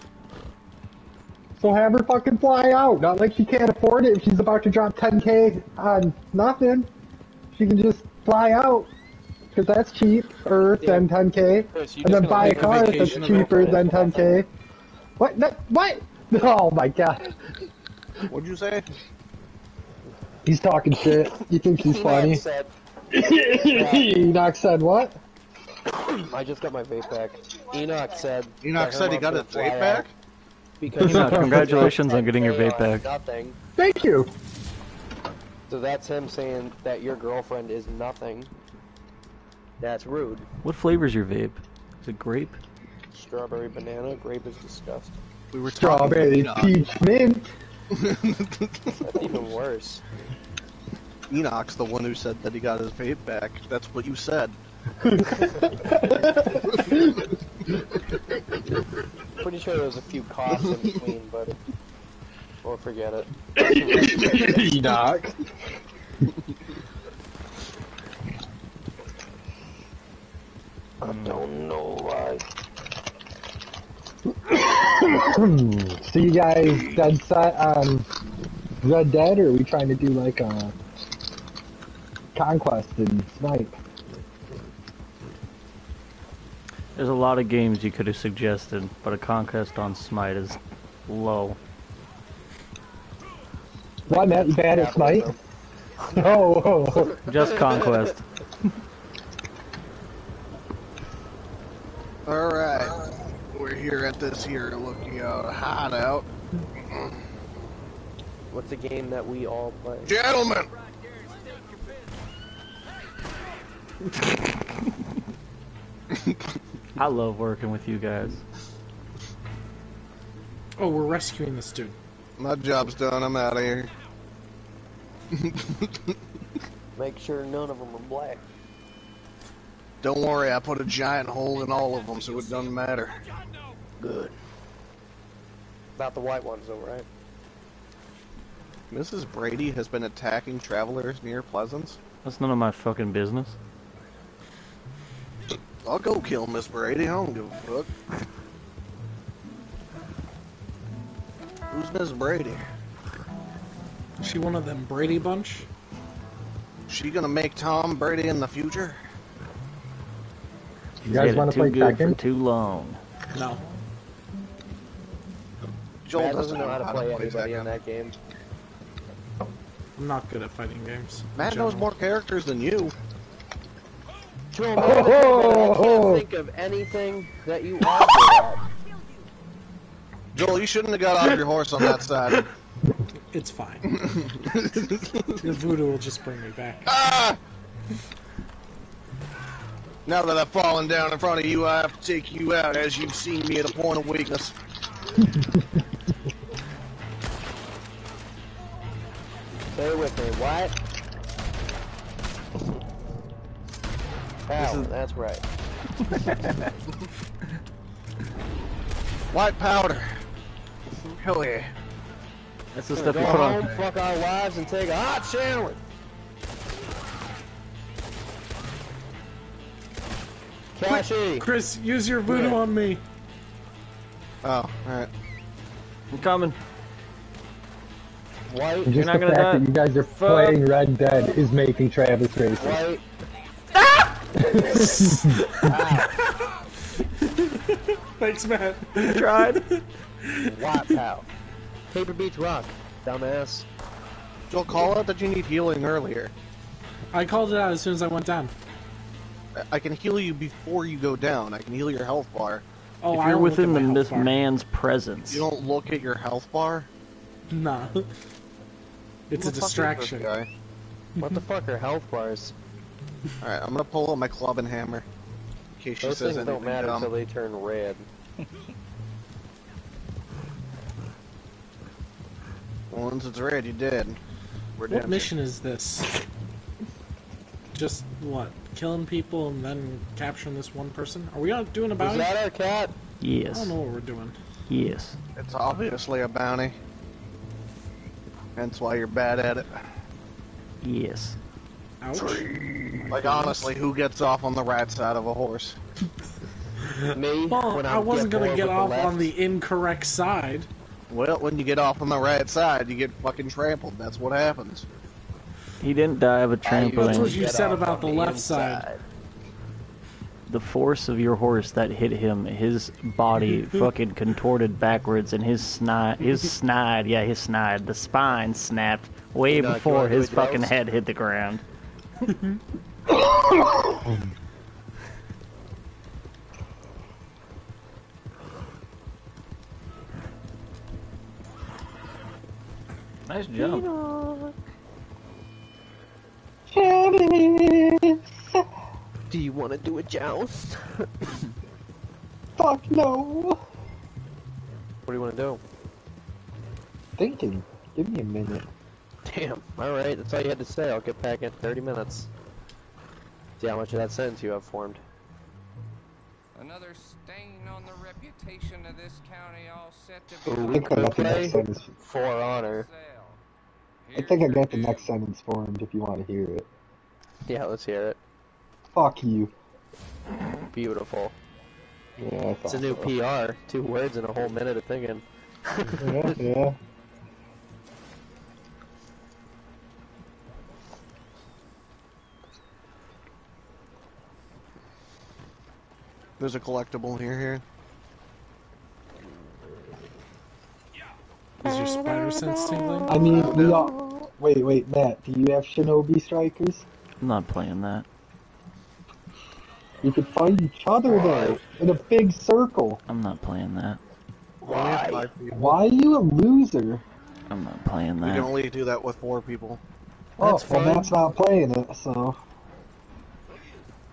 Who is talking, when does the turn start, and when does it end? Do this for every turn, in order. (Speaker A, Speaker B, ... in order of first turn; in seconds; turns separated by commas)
Speaker A: 1.6-6.9, Speaker A: 7.5-8.9, Speaker A: 9.5-14.5, Speaker B: 10.8-11.1, Speaker B: 11.7-14.4, Speaker C: 12.4-13.8, Speaker A: 15.2-17.4, Speaker D: 18.3-18.9, Speaker A: 20.4-22.4, Speaker B: 21.8-22.7, Speaker A: 23.1-25.2, Speaker B: 23.7-24.2, Speaker B: 26.1-30.1, Speaker D: 28.6-30.1, Speaker B: 30.8-33.6, Speaker E: 31.0-33.0, Speaker A: 31.0-31.8, Speaker A: 33.8-34.3, Speaker B: 35.7-38.5, Speaker B: 39.8-40.5, Speaker E: 40.6-42.6, Speaker B: 43.1-45.2, Speaker D: 45.5-46.8, Speaker A: 45.8-47.5, Speaker D: 47.9-49.3, Speaker B: 49.0-50.0, Speaker D: 51.3-54.6, Speaker A: 55.0-58.6, Speaker B: 59.4-61.6, Speaker B: 62.6-64.8, Speaker A: 63.5-65.3, Speaker B: 71.0-72.5, Speaker E: 71.0-71.5, Speaker A: 74.4-78.1, Speaker A: 78.8-80.8, Speaker A: 82.3-83.8, Speaker E: 87.0-91.6, Speaker A: 94.1-95.4, Speaker B: 94.1-95.4, Speaker A: 96.1-97.2, Speaker E: 97.3-98.2, Speaker B: 97.7-98.0, Speaker D: 102.3-103.0, Speaker D: 103.5-107.1, Speaker B: 108.5-110.1, Speaker D: 110.1-110.7, Speaker F: 110.8-112.2, Speaker E: 114.2-114.6, Speaker D: 116.1-116.4, Speaker E: 117.0-118.4, Speaker C: 120.8-122.0, Speaker D: 122.4-123.9, Speaker D: 125.3-126.2, Speaker B: 127.0-128.4, Speaker D: 130.0-133.2, Speaker F: 131.6-132.8, Speaker B: 134.0-134.3, Speaker B: 136.0-137.1, Speaker D: 138.9-142.0, Speaker E: 142.2-143.6, Speaker D: 145.8-147.9, Speaker D: 151.7-152.7, Speaker C: 154.2-155.7, Speaker D: 156.9-159.0, Speaker A: 161.1-162.2, Speaker E: 161.1-163.0, Speaker C: 163.3-163.6, Speaker D: 166.1-167.7, Speaker B: 166.1-168.2, Speaker C: 170.0-171.9, Speaker D: 171.3-172.9, Speaker B: 174.5-178.6, Speaker A: 174.8-176.3, Speaker D: 180.3-182.5, Speaker C: 183.3-184.0, Speaker D: 183.9-185.6, Speaker C: 184.9-186.9, Speaker D: 186.9-187.4, Speaker D: 190.1-194.6, Speaker A: 195.3-195.6, Speaker B: 199.7-200.8, Speaker B: 204.5-205.4, Speaker E: 204.6-204.9, Speaker E: 206.1-206.7, Speaker D: 209.3-210.2, Speaker D: 211.2-211.7, Speaker E: 212.7-213.7, Speaker B: 213.0-215.8, Speaker D: 213.2-213.9, Speaker B: 220.8-221.5, Speaker C: 220.8-223.0, Speaker B: 222.3-222.6, Speaker D: 224.4-225.1, Speaker E: 226.1-226.6, Speaker B: 228.5-229.0, Speaker A: 228.8-232.8, Speaker E: 228.9-230.6, Speaker B: 232.6-233.0, Speaker E: 233.8-234.2, Speaker A: 234.4-235.5, Speaker B: 234.4-236.2, Speaker E: 235.1-235.7, Speaker C: 237.2-240.4, Speaker E: 239.0-239.7, Speaker B: 240.4-241.3, Speaker B: 241.9-243.7, Speaker D: 244.5-246.3, Speaker C: 247.1-248.5, Speaker D: 249.6-252.6, Speaker C: 253.0-254.3, Speaker E: 253.1-255.5, Speaker D: 255.3-256.9, Speaker C: 257.5-258.1, Speaker C: 259.3-260.3, Speaker D: 259.3-260.5, Speaker B: 261.2-262.6, Speaker D: 263.4-265.1, Speaker D: 265.8-267.1, Speaker B: 266.0-268.1, Speaker D: 272.9-274.2, Speaker D: 274.8-275.3, Speaker C: 274.9-276.1, Speaker C: 277.7-282.3, Speaker B: 282.0-283.0, Speaker E: 283.2-283.8, Speaker C: 283.5-284.4, Speaker E: 284.7-285.2, Speaker D: 285.4-286.8, Speaker D: 288.6-289.7, Speaker E: 290.8-291.4, Speaker C: 292.0-293.7, Speaker D: 292.2-292.4, Speaker D: 293.1-295.8, Speaker C: 296.8-300.7, Speaker B: 297.1-299.3, Speaker D: 301.1-304.9, Speaker E: 305.8-307.4, Speaker B: 306.6-309.0, Speaker C: 306.9-308.9, Speaker E: 310.5-321.6, Speaker B: 319.5-320.7, Speaker C: 322.3-322.6, Speaker A: 323.2-324.3, Speaker E: 333.3-333.9, Speaker B: 333.6-334.5, Speaker A: 336.7-338.6, Speaker B: 339.3-341.1, Speaker A: 342.6-343.6, Speaker B: 345.1-345.6, Speaker A: 347.2-348.7, Speaker B: 349.2-352.3, Speaker B: 353.6-355.0, Speaker F: 356.6-361.4, Speaker B: 360.5-362.9, Speaker A: 360.5-361.9, Speaker F: 362.7-363.4, Speaker F: 364.1-365.1, Speaker A: 364.1-366.7, Speaker B: 367.5-368.2, Speaker A: 368.9-369.5, Speaker B: 370.7-371.4, Speaker A: 372.2-373.1, Speaker B: 372.7-375.2, Speaker B: 375.8-376.3, Speaker A: 376.0-376.8, Speaker D: 386.4-387.6, Speaker C: 391.6-393.1, Speaker A: 393.1-396.9, Speaker D: 393.3-393.8, Speaker E: 397.2-398.1, Speaker A: 400.0-403.0, Speaker B: 401.1-401.6, Speaker E: 403.1-404.0, Speaker B: 404.6-405.3, Speaker D: 404.6-405.8, Speaker A: 405.5-407.0, Speaker E: 407.5-408.5, Speaker D: 408.2-409.8, Speaker A: 410.4-412.4, Speaker B: 410.4-411.1